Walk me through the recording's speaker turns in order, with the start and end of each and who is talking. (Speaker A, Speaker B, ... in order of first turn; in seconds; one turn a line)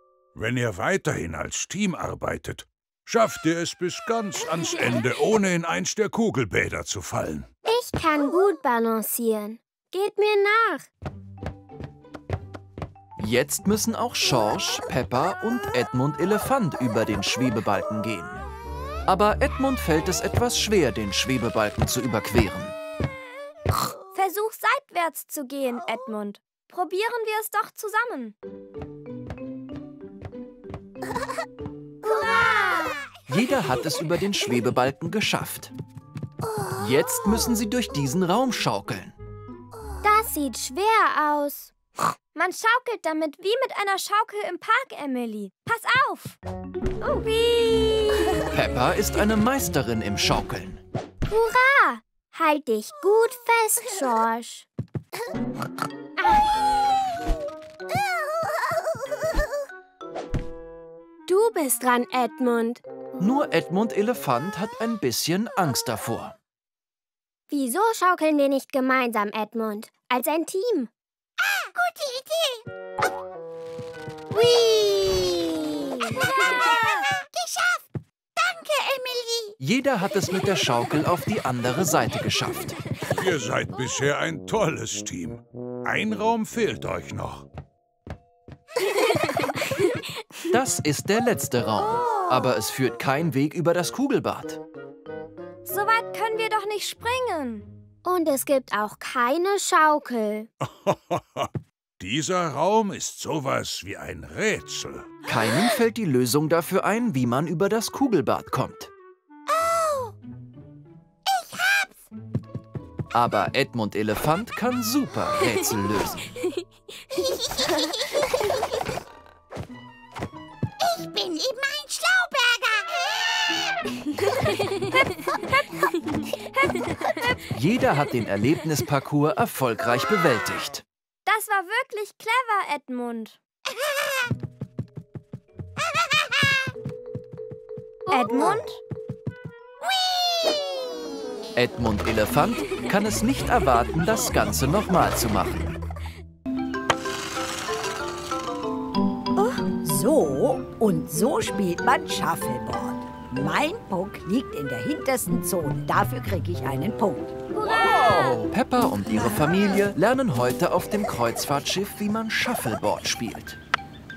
Speaker A: 0.3-7.5
Speaker B: 7.7-10.9
Speaker C: 13.2-18.4
Speaker C: 19.1-22.8
Speaker D: 24.1-28.4
Speaker B: 32.1-32.9
Speaker C: 33.3-35.7
Speaker C: 36.8-39.1
Speaker B: 40.0-41.7
Speaker D: 42.4-46.4
Speaker D: 47.0-48.5
Speaker C: 48.5-50.8
Speaker B: 51.3-54.7
Speaker B: 56.2-56.7
Speaker B: 61.3-62.8
Speaker C: 63.2-66.4
Speaker B: 67.5-70.9
Speaker B: 71.6-72.6
Speaker B: 74.3-77.8
Speaker E: 78.4-79.6
Speaker C: 79.6-82.8
Speaker A: 83.2-87.5
Speaker C: 90.5-94.6
Speaker D: 95.7-97.7
Speaker B: 98.0-100.5
Speaker A: 100.6-105.1
Speaker C: 105.3-108.9
Speaker B: 109.7-110.1
Speaker E: 111.3-111.6
Speaker C: 113.1-116.4
Speaker B: 117.8-118.1
Speaker B: 120.8-122.7
Speaker E: 121.2-122.8
Speaker D: 125.2-127.4
Speaker C: 127.5-130.8
Speaker D: 131.3-133.4
Speaker D: 138.1-138.8
Speaker B: 138.1-138.6
Speaker C: 141.6-145.8
Speaker E: 149.8-157.3
Speaker D: 157.5-158.4
Speaker C: 157.6-163.6